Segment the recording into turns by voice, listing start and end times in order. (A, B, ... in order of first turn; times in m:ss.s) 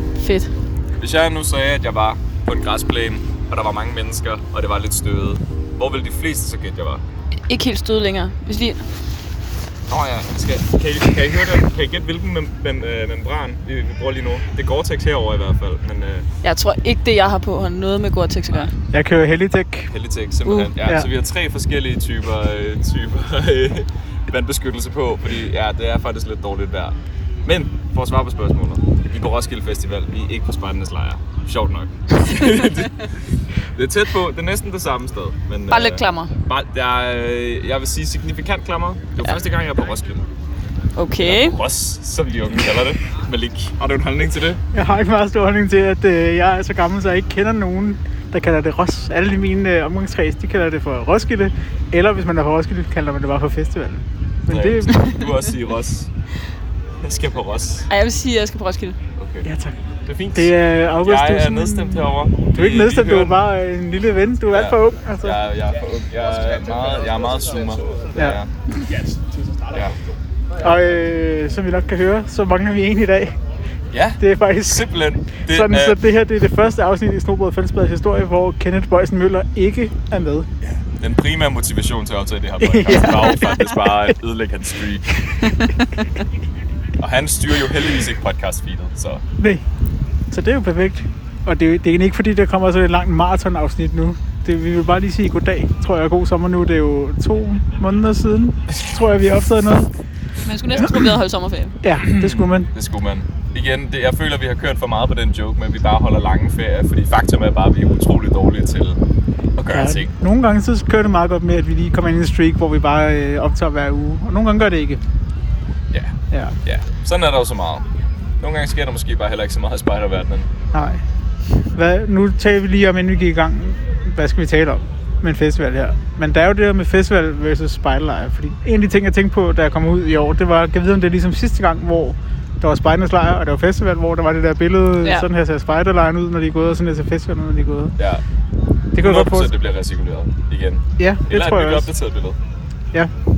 0:00.2-0:00.5 A
0:01.0-0:07.0 B
0:07.5-0:08.8 A
0:09.9-0:16.2 B
0:16.4-0:18.7 A
0:18.9-0:19.9 C
0:19.9-0:40.2 B
0:20.4-0:20.7 A
0:35.7-0:36.3 A
0:40.9-0:41.6 A
0:41.2-0:44.6 B
0:44.7-0:55.1 C
0:54.5-0:56.1 B
0:57.0-0:57.9 B
0:57.9-0:59.0 A
0:59.2-0:59.5 B
0:59.4-0:59.7 C
1:00.0-1:03.4 B
1:00.3-1:05.4 C
1:04.5-1:08.5 B
1:09.7-1:10.1 B
1:10.6-1:13.4 C
1:13.9-1:16.0 B
1:14.2-1:20.5 C
1:20.6-1:25.7 B
1:22.6-1:24.1 C
1:25.4-1:25.8 A
1:27.0-1:29.2 B
1:29.4-1:29.6 C
1:30.3-1:39.9 C
1:40.4-1:41.8 A
1:41.8-1:42.7 C
1:42.0-1:49.0 B
1:49.6-1:50.1 B
1:49.7-1:55.0 C
1:55.9-1:57.8 B
1:56.3-1:56.6 C
1:58.4-2:00.5 B
2:00.7-2:01.0 C
2:01.7-2:18.0 C
2:18.0-2:18.2 B
2:18.9-2:19.5 C
2:19.0-2:22.4 B
2:21.0-2:21.9 C